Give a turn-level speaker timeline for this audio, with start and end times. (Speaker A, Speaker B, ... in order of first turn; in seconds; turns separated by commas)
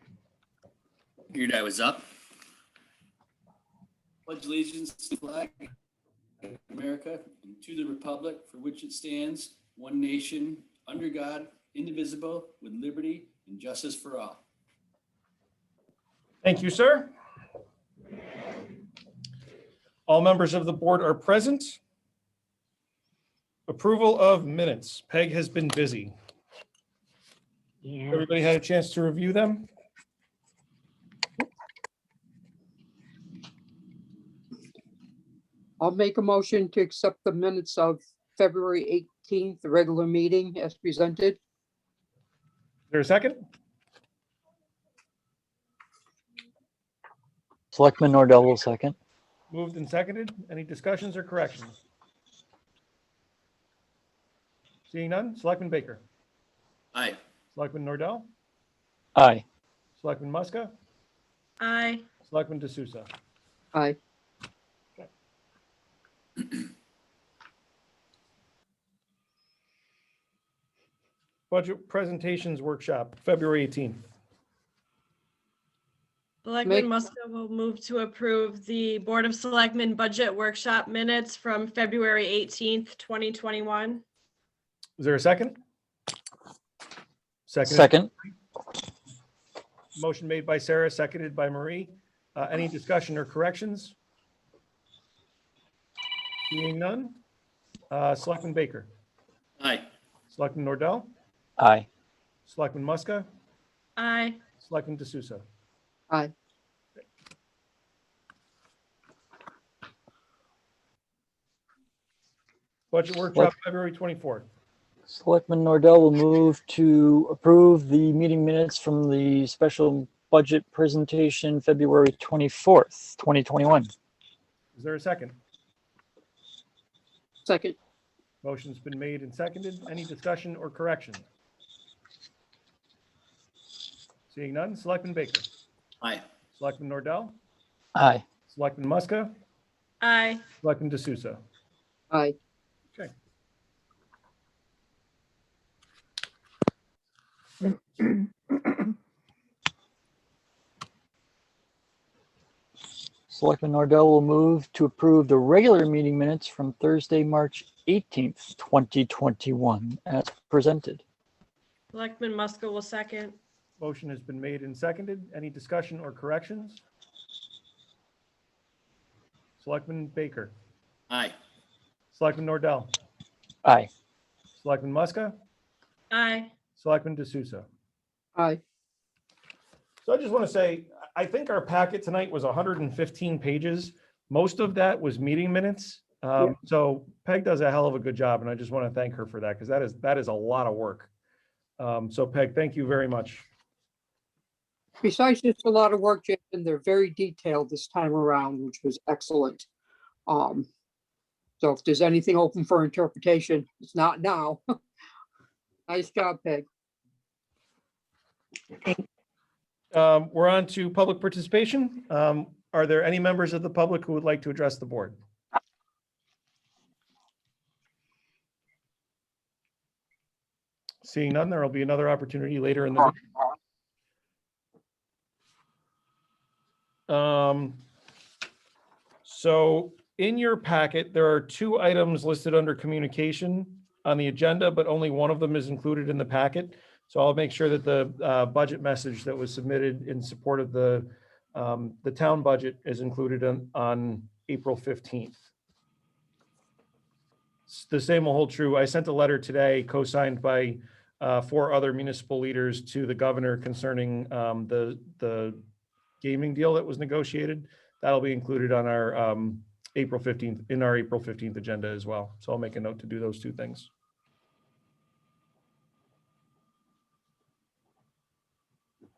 Speaker A: 1.4-2.0, Speaker A: 4.3-5.6, Speaker A: 6.7-14.4, Speaker B: 16.4-17.1, Speaker B: 20.1-21.8, Speaker B: 23.7-26.1, Speaker B: 28.1-29.7, Speaker C: 35.8-41.4, Speaker B: 42.9-43.4, Speaker D: 47.7-49.0, Speaker B: 49.5-51.8, Speaker B: 54.9-56.0, Speaker B: 57.5-58.3, Speaker D: 59.2-59.5, Speaker B: 60.0-60.7, Speaker E: 61.6-62.0, Speaker B: 62.2-63.1, Speaker B: 71.5-74.0, Speaker E: 76.5-84.0, Speaker B: 85.0-85.6, Speaker B: 87.5-88.0, Speaker D: 87.6-88.1, Speaker B: 90.0-94.0, Speaker B: 96.5-97.2, Speaker B: 97.9-98.9, Speaker B: 100.3-101.1, Speaker D: 101.6-101.9, Speaker B: 102.5-103.3, Speaker E: 104.0-104.4, Speaker B: 104.6-105.4, Speaker B: 112.9-114.5, Speaker D: 115.1-123.9, Speaker B: 124.8-125.4, Speaker C: 127.5-127.8, Speaker B: 128.4-131.2, Speaker B: 134.3-135.5, Speaker B: 136.5-137.4, Speaker D: 138.0-138.2, Speaker B: 138.5-139.3, Speaker E: 140.0-140.4, Speaker B: 140.6-141.4, Speaker C: 142.1-142.4, Speaker D: 153.3-161.0, Speaker E: 161.9-163.4, Speaker B: 163.8-166.8, Speaker B: 169.6-170.5, Speaker B: 172.1-172.9, Speaker B: 174.6-175.4, Speaker E: 176.1-176.5, Speaker B: 176.8-177.7, Speaker B: 180.0-191.1, Speaker B: 191.8-193.5, Speaker C: 195.0-199.7, Speaker C: 200.3-200.7, Speaker C: 201.6-204.6, Speaker C: 205.9-206.7, Speaker B: 209.9-215.2, Speaker B: 221.0-223.2, Speaker B: 227.1-227.8, Speaker B: 229.2-245.4, Speaker B: 247.7-255.6, Speaker B: 256.2-263.9